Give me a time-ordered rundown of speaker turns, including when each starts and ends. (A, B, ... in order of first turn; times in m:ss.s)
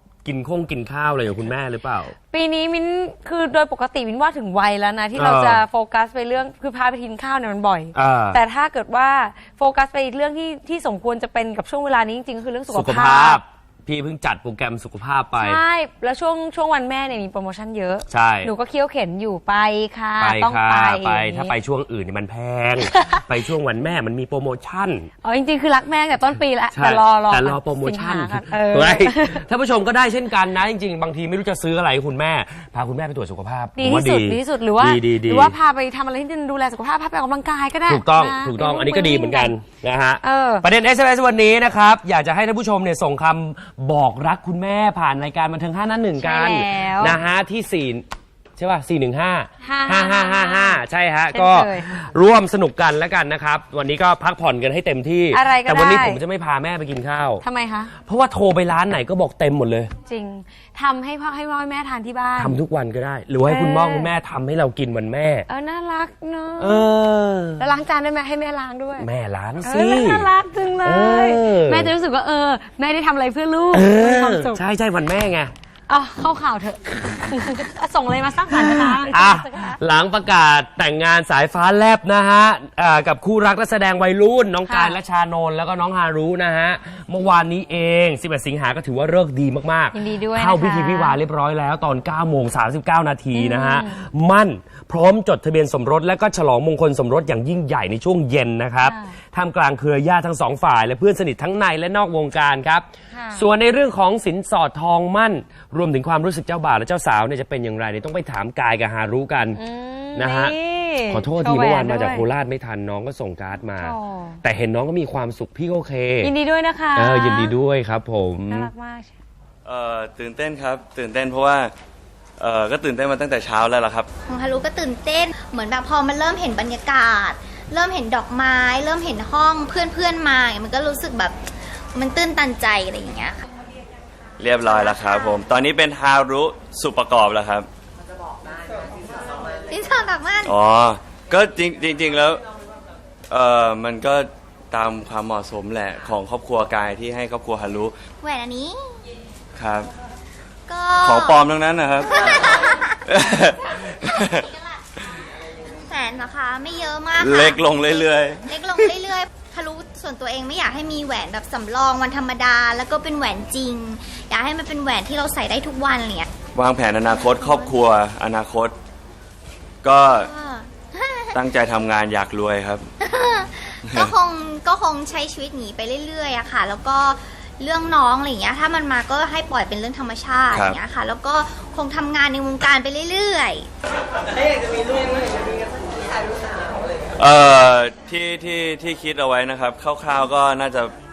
0:00.2-0:02.1 A
0:02.3-0:13.4 B
0:05.2-0:05.6 A
0:08.0-0:08.4 A
0:12.7-0:15.6 A
0:15.4-0:21.5 B
0:18.1-0:18.5 A
0:20.2-0:25.1 A
0:22.9-0:23.2 B
0:25.2-0:29.4 B
0:26.7-0:35.5 A
0:33.8-0:39.5 B
0:37.9-0:48.0 A
0:40.2-0:40.6 B
0:46.2-0:47.2 B
0:48.6-0:57.4 A
0:49.6-0:50.8 B
0:51.3-0:52.0 B
0:55.3-0:56.2 B
0:57.4-0:57.9 B
0:58.0-0:59.9 A
1:00.1-1:02.6 B
1:02.4-1:05.4 A
1:03.4-1:04.1 B
1:05.5-1:06.9 B
1:06.6-1:07.6 A
1:07.6-1:09.1 B
1:09.0-1:10.2 A
1:09.6-1:14.6 B
1:10.8-1:11.9 A
1:13.7-1:15.5 A
1:15.9-1:19.8 B
1:18.6-1:49.6 A
1:24.7-1:25.0 B
1:29.9-1:31.2 B
1:33.3-1:34.0 B
1:38.8-1:39.1 B
1:43.1-1:43.4 B
1:49.6-1:52.2 B
1:50.1-1:50.5 A
1:51.1-1:56.3 A
1:53.8-1:54.4 B
1:56.2-1:57.5 B
1:56.9-1:58.7 A
1:58.5-1:59.1 B
1:59.6-2:01.7 C
2:02.4-2:04.1 C
2:04.3-2:13.4 D
2:14.4-2:17.7 C
2:14.6-2:15.4 D
2:19.7-2:20.5 D
2:20.4-2:22.4 C
2:23.3-2:28.0 C
2:28.2-2:29.0 D
2:29.6-2:29.9 C
2:30.7-2:31.4 D
2:31.0-2:34.5 C
2:32.1-2:33.0 D
2:35.8-2:46.3 D
2:37.2-2:38.4 C
2:46.5-2:48.8 C
2:47.1-2:47.8 D
2:49.8-2:50.3 C
2:50.1-2:51.3 D
2:51.3-2:52.9 C
2:53.0-3:03.7 D
2:53.9-2:54.1 C
3:00.5-3:00.8 C
3:07.2-3:10.9 C